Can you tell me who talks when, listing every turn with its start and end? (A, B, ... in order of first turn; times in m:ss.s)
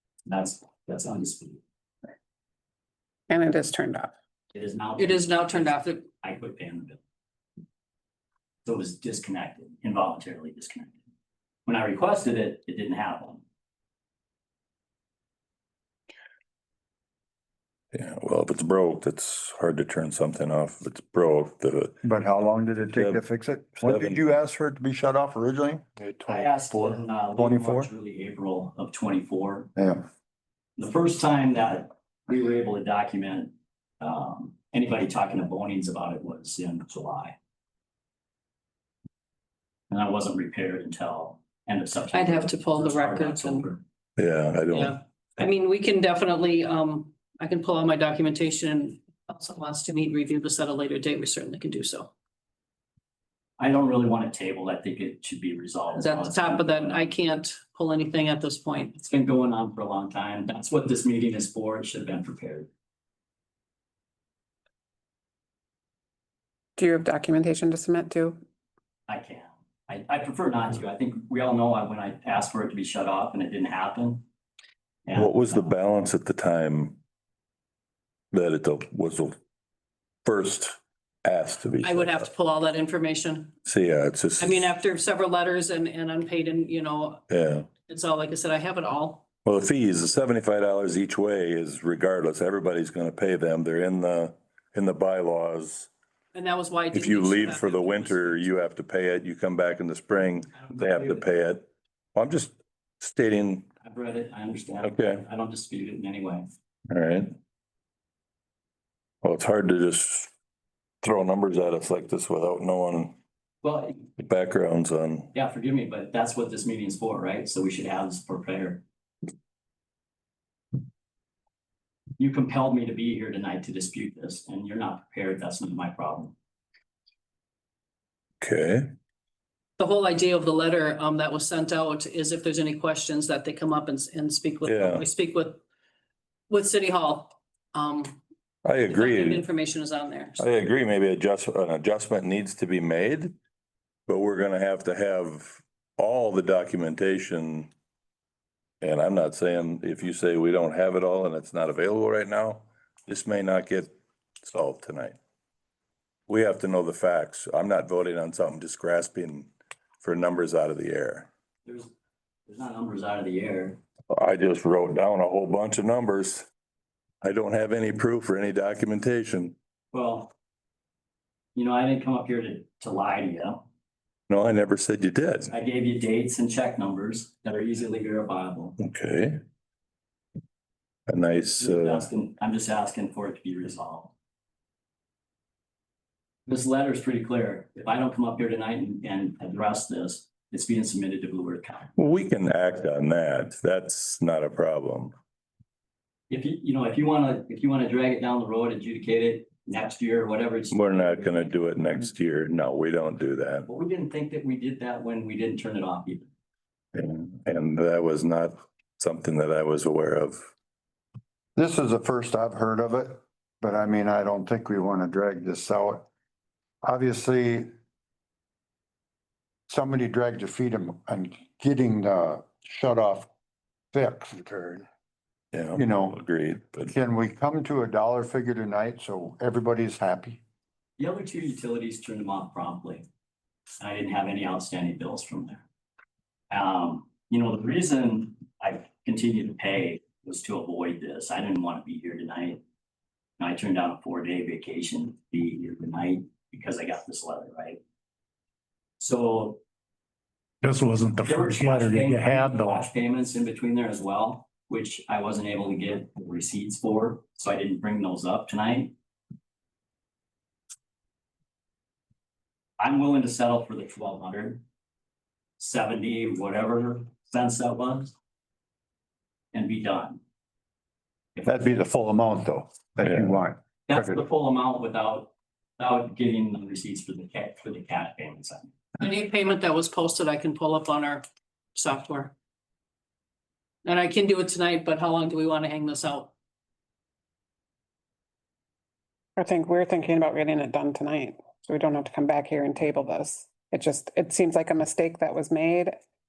0:00.3-0:01.6 A
0:03.3-0:04.1 B
0:04.5-0:07.0 A
0:05.0-0:06.0 C
0:08.6-0:11.0 A
0:11.7-0:13.4 A
0:17.9-0:22.0 D
0:22.0-0:27.9 E
0:22.9-0:23.2 D
0:23.8-0:24.3 D
0:26.3-0:29.7 A
0:29.8-0:30.0 E
0:30.8-0:37.4 A
0:39.9-0:43.8 A
0:42.1-0:43.7 C
0:44.2-0:45.0 D
0:44.7-0:52.1 C
0:53.6-0:57.1 A
0:56.0-0:59.0 C
0:59.0-1:02.7 A
1:06.8-1:08.4 B
1:09.1-1:14.3 A
1:15.1-1:15.7 A
1:15.2-1:17.0 D
1:18.3-1:19.4 D
1:20.2-1:22.3 D
1:21.8-1:23.5 C
1:23.7-1:24.7 D
1:24.4-1:27.2 C
1:27.3-1:27.7 D
1:27.9-1:29.2 C
1:29.4-1:35.9 D
1:36.3-1:38.6 C
1:36.9-1:43.7 D
1:40.5-1:41.2 A
1:43.8-1:46.5 A
1:44.8-1:45.2 D
1:46.9-1:47.4 D
1:49.2-1:50.3 D
1:51.0-1:53.2 D
1:53.6-1:54.1 A
1:54.2-1:55.3 D
1:55.3-1:58.8 A
2:02.2-2:06.4 A
2:08.4-2:08.9 D
2:09.8-2:15.6 C
2:14.6-2:15.1 D
2:16.5-2:18.2 C
2:18.6-2:19.5 D
2:18.9-2:20.5 C
2:20.4-2:23.4 D
2:24.1-2:27.7 D
2:28.8-2:35.2 D
2:36.3-2:39.5 D
2:40.0-2:41.3 D
2:41.7-2:41.9 A
2:42.5-2:43.8 A
2:44.1-2:46.5 D
2:47.2-2:49.6 D
2:49.9-2:50.3 A
2:51.6-2:53.6 A
2:54.3-2:55.5 D
2:55.5-2:58.8 A
2:58.8-2:59.4 D
3:01.1-3:02.1 D
3:01.6-3:04.1 A
3:06.5-3:12.0 A
3:12.0-3:15.1 D
3:16.3-3:22.1 A
3:20.7-3:23.7 D
3:23.7-3:26.3 A
3:26.9-3:30.5 D
3:31.6-3:36.0 E
3:36.8-3:37.7 E
3:39.7-3:43.3 E
3:43.9-3:44.8 E
3:45.5-3:46.9 D
3:45.8-3:46.2 E
3:46.9-3:50.4 E
3:51.0-3:53.1 A
3:53.8-3:55.6 A
3:56.5-4:02.6 A
4:03.4-4:07.8 A
4:09.0-4:09.6 A
4:10.6-4:12.9 F
4:11.2-4:18.9 A
4:22.8-4:24.6 A
4:25.6-4:28.1 A
4:29.5-4:30.2 A
4:31.4-4:34.2 E
4:33.1-4:33.4 D
4:33.9-4:38.8 A
4:39.0-4:41.2 C
4:41.8-4:42.3 C
4:43.8-4:46.3 C
4:49.4-4:56.0 B